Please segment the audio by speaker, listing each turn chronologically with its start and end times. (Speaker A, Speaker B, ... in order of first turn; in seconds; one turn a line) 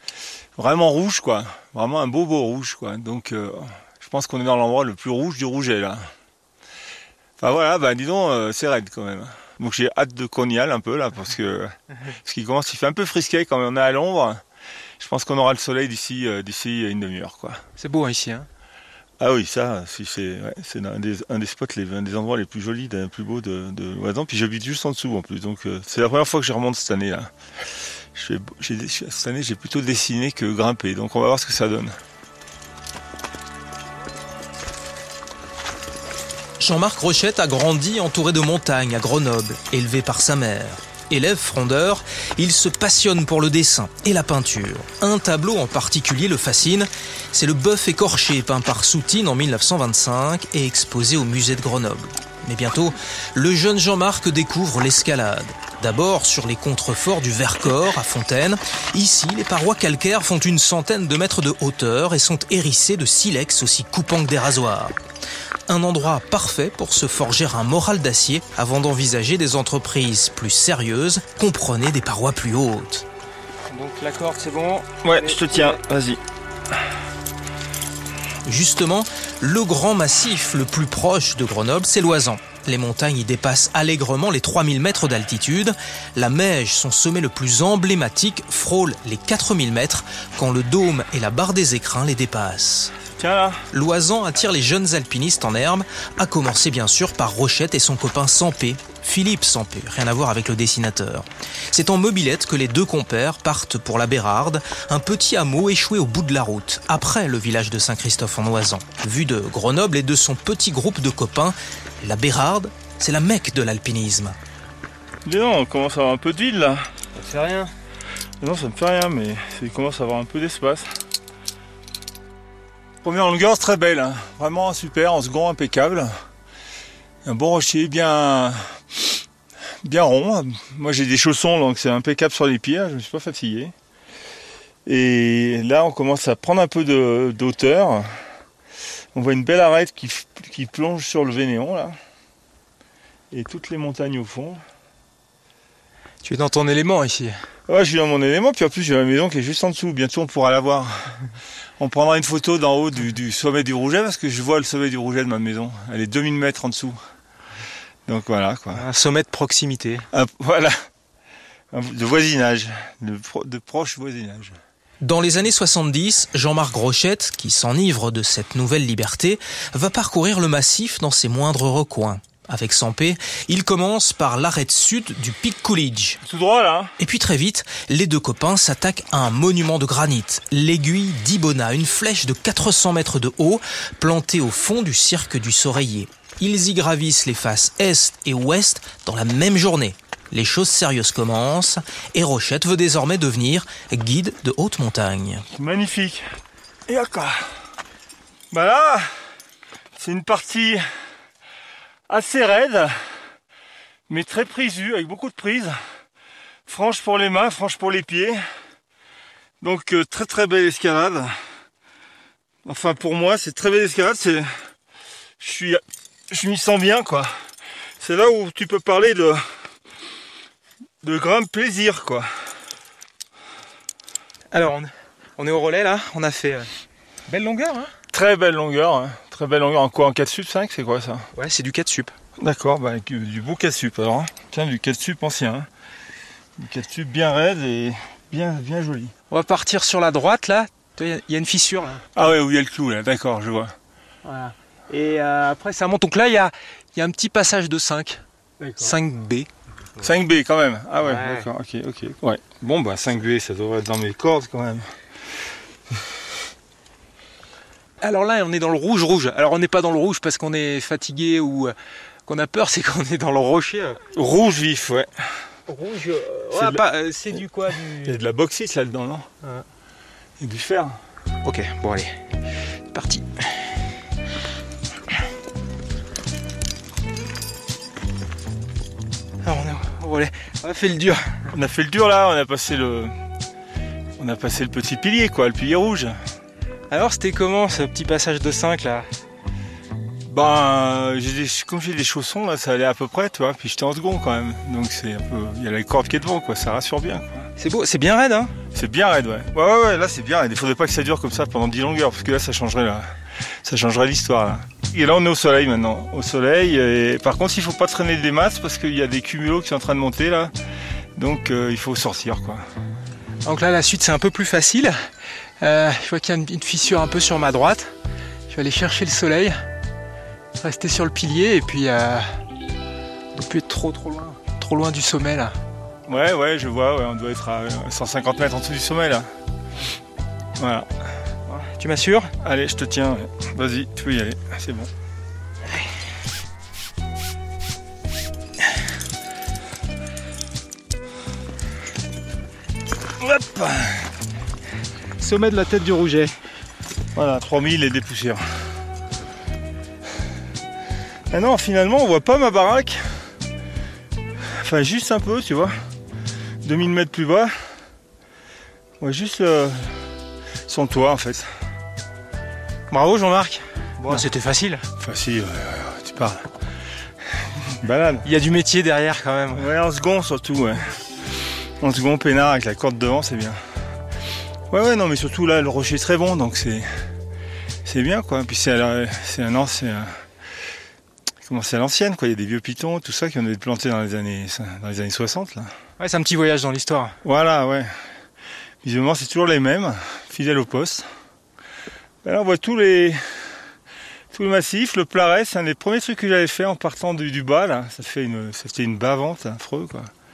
Speaker A: 0.6-6.1
Speaker A: 7.4-14.4
Speaker A: 15.0-17.6
Speaker B: 17.8-18.5
Speaker A: 19.2-27.3
Speaker A: 28.1-31.9
Speaker C: 36.6-65.0
Speaker C: 65.7-73.1
Speaker B: 73.7-75.8
Speaker A: 75.0-76.2
Speaker C: 78.4-93.0
Speaker A: 93.2-93.6
Speaker C: 93.7-114.4
Speaker A: 115.2-117.5
Speaker A: 118.4-120.9
Speaker A: 123.0-126.1
Speaker A: 127.2-129.0
Speaker A: 129.8-133.7
Speaker A: 134.9-138.1
Speaker A: 139.2-141.9
Speaker A: 143.3-144.6
Speaker B: 146.2-147.3
Speaker A: 147.7-151.1
Speaker A: 151.8-157.0
Speaker A: 158.1-158.8
Speaker B: 158.8-160.1
Speaker A: 160.1-160.7
Speaker A: 161.7-164.6
Speaker C: 165.0-176.2
Speaker A: 176.2-176.9
Speaker C: 177.0-195.4
Speaker A: 195.5-196.2
Speaker A: 196.9-197.4
Speaker A: 198.5-199.1
Speaker A: 200.0-200.8
Speaker A: 202.1-202.9
Speaker A: 204.1-205.8
Speaker A: 206.7-208.4
Speaker A: 209.6-211.3
Speaker A: 212.7-214.5
Speaker A: 215.4-217.4
Speaker A: 218.0-219.4
Speaker A: 221.0-222.3
Speaker B: 224.5-226.7
Speaker B: 227.3-227.9
Speaker A: 228.1-231.3
Speaker B: 231.4-232.1
Speaker A: 232.4-235.7
Speaker A: 236.6-239.1
Speaker B: 239.3-242.0
Speaker A: 242.2-243.7
Speaker B: 244.3-248.2
Speaker A: 248.6-248.9
Speaker B: 248.8-249.5
Speaker A: 250.0-254.9
Speaker B: 251.1-251.4
Speaker B: 258.0-261.7
Speaker B: 262.3-264.0
Speaker A: 264.1-265.1
Speaker B: 265.7-268.2
Speaker A: 266.5-266.8
Speaker A: 268.0-269.3
Speaker A: 270.4-271.0
Speaker B: 271.4-272.2
Speaker B: 272.9-273.4
Speaker B: 279.4-281.4
Speaker A: 281.5-283.1
Speaker A: 284.2-286.2
Speaker B: 286.9-289.1
Speaker A: 290.3-297.5
Speaker B: 297.6-298.6
Speaker A: 298.7-303.1
Speaker A: 303.6-310.5
Speaker A: 311.2-312.6
Speaker B: 313.4-314.9
Speaker B: 315.6-317.9
Speaker B: 318.5-319.5
Speaker B: 320.6-322.3
Speaker B: 323.4-325.5
Speaker A: 326.1-329.3
Speaker A: 330.6-330.9
Speaker B: 331.6-332.3
Speaker A: 332.4-334.9
Speaker A: 343.2-344.1
Speaker B: 345.2-346.3
Speaker A: 347.2-348.4
Speaker A: 351.3-353.3
Speaker A: 354.6-355.7
Speaker A: 356.6-357.5
Speaker A: 359.0-359.9
Speaker A: 360.7-361.5
Speaker B: 362.9-364.8
Speaker A: 364.0-364.3
Speaker A: 365.0-366.4
Speaker A: 367.7-368.3
Speaker B: 368.2-369.6
Speaker A: 369.5-370.8
Speaker A: 371.8-373.6
Speaker A: 374.7-376.9
Speaker A: 377.9-380.1
Speaker A: 381.5-385.7
Speaker B: 386.0-387.1
Speaker A: 387.2-387.9
Speaker A: 388.8-391.1
Speaker A: 392.2-393.2
Speaker A: 394.3-400.1